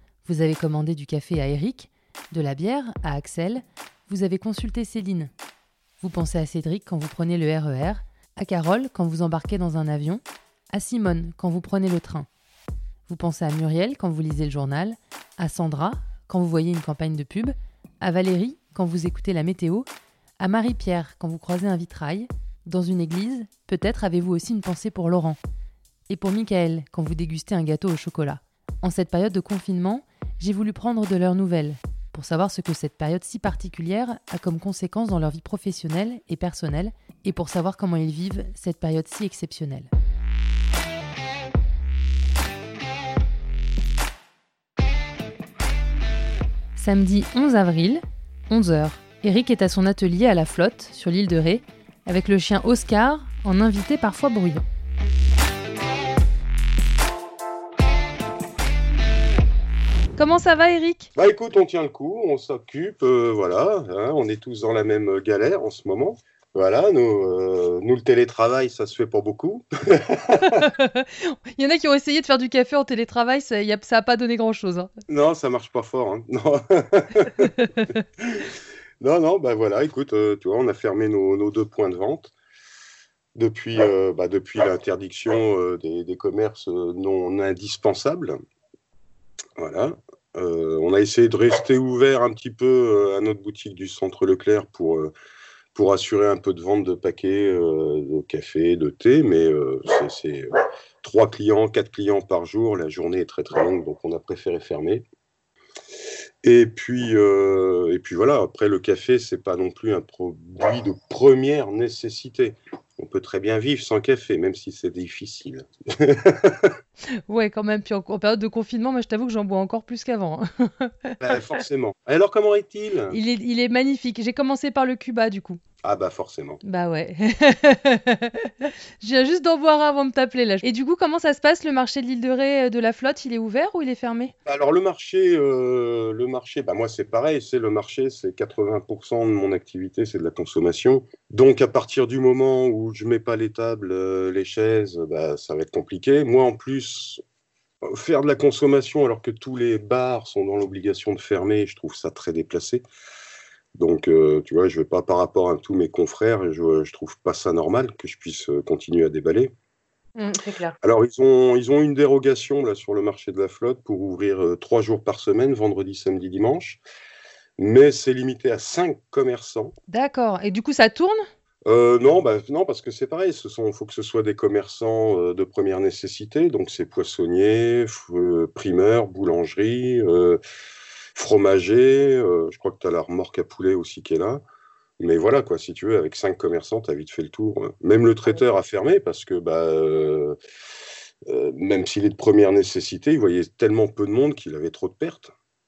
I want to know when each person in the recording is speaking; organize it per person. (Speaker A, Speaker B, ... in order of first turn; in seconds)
Speaker A: 0.2-5.3, 6.0-12.3, 13.1-19.9, 20.4-25.4, 26.1-39.9, 46.8-54.6, 60.2-61.1, 70.4-74.9, 77.4-77.9, 117.3-121.2, 123.1-125.6, 126.6-134.3, 160.2-160.8, 169.9-171.2
Speaker B: 61.2-70.7, 75.1-82.3, 83.3-88.4, 89.6-95.1, 95.8-100.5, 101.0-105.0, 106.4-116.8, 121.2-123.2, 125.8-126.6, 134.5-147.2, 147.9-152.8, 153.8-159.5, 160.8-166.8, 167.6-169.8, 171.7-180.4, 181.2-184.4, 185.0-190.4, 191.3-195.3